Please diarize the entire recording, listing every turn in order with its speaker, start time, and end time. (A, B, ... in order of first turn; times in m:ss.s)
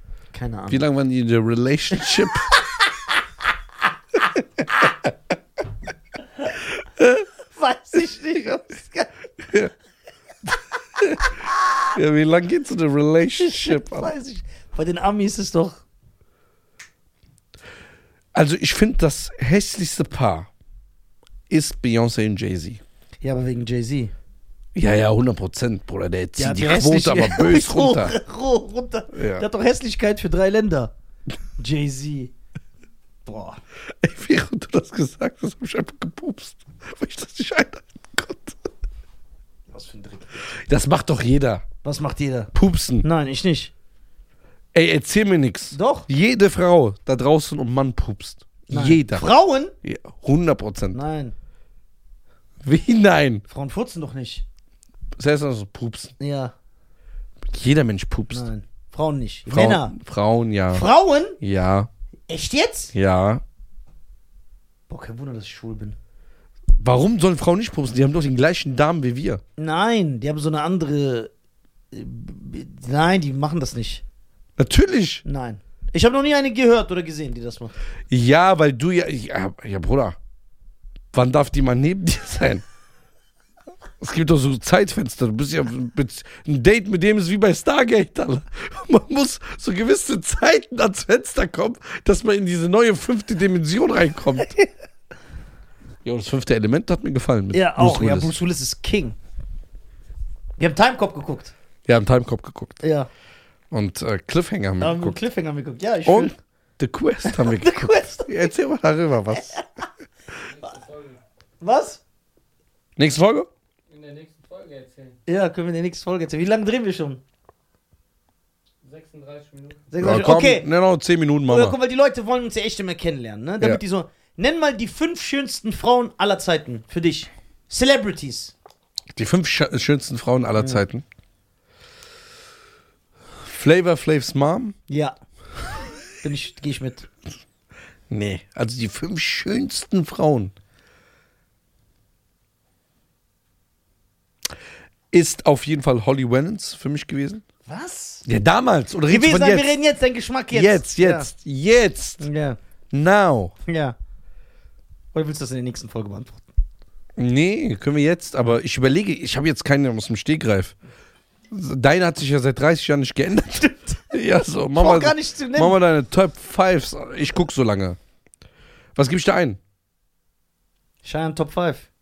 0:00.3-0:00.9 A
0:00.7-0:02.5 B
0:07.0-0:07.2 B
0:07.5-0:09.1 A
0:11.9-0:14.1 B
0:13.5-0:15.8 A
0:18.3-0:20.5 B
0:21.5-0:22.8 B
0:23.2-0:24.1 A
0:24.8-0:28.2 B
0:26.4-0:30.9 A
0:29.1-0:29.5 B
0:31.6-0:32.3 A
0:33.3-0:33.6 A
0:34.0-0:38.7 B
0:39.7-0:40.5 A
0:40.5-0:41.6 B
0:41.8-0:42.5 A
0:42.5-0:43.1 B
0:43.0-0:43.7 A
0:44.7-0:49.3 B
0:45.7-0:46.1 A
0:48.7-0:49.7 A
0:49.8-0:51.0 B
0:50.9-0:51.3 A
0:52.6-0:53.4 B
0:53.5-0:54.4 A
0:55.2-0:56.1 B
0:56.2-0:56.5 A
0:57.5-0:58.5 B
0:58.3-1:00.0 A
0:59.5-1:00.9 B
1:00.7-1:01.4 A
1:01.4-1:01.9 B
1:02.3-1:02.9 A
1:02.9-1:03.4 B
1:04.9-1:06.0 A
1:06.8-1:09.4 B
1:09.6-1:11.3 A
1:11.9-1:14.0 A
1:14.6-1:15.2 B
1:15.2-1:17.7 A
1:18.1-1:20.2 B
1:21.1-1:22.6 B
1:24.0-1:34.6 B
1:36.0-1:38.3 B
1:37.5-1:39.2 A
1:40.6-1:41.5 A
1:41.9-1:42.8 B
1:42.8-1:43.1 A
1:43.7-1:45.2 B
1:44.8-1:46.3 A
1:46.0-1:49.6 B
1:47.2-1:48.5 A
1:49.3-1:49.6 A
1:50.5-1:51.2 C
1:51.6-1:52.0 A
1:53.0-1:53.5 B
1:53.9-1:55.2 C
1:55.3-1:57.2 A
1:58.8-1:59.9 C
1:59.9-2:00.7 A
2:00.0-2:01.8 B
2:01.5-2:08.6 A
2:09.1-2:11.0 B
2:10.6-2:10.8 A
2:13.4-2:14.8 B
2:14.9-2:15.2 A
2:16.2-2:17.1 A
2:18.1-2:20.5 B
2:25.1-2:27.4 B
2:27.7-2:28.2 A
2:28.2-2:29.7 B
2:29.1-2:31.3 A
2:30.5-2:32.3 B
2:32.2-2:32.6 A
2:32.9-2:33.6 B
2:33.7-2:34.0 A
2:35.1-2:36.5 A
2:37.2-2:40.8 B
2:41.5-2:48.0 B
2:44.7-2:45.8 A
2:49.0-2:49.6 B
2:51.0-2:51.9 A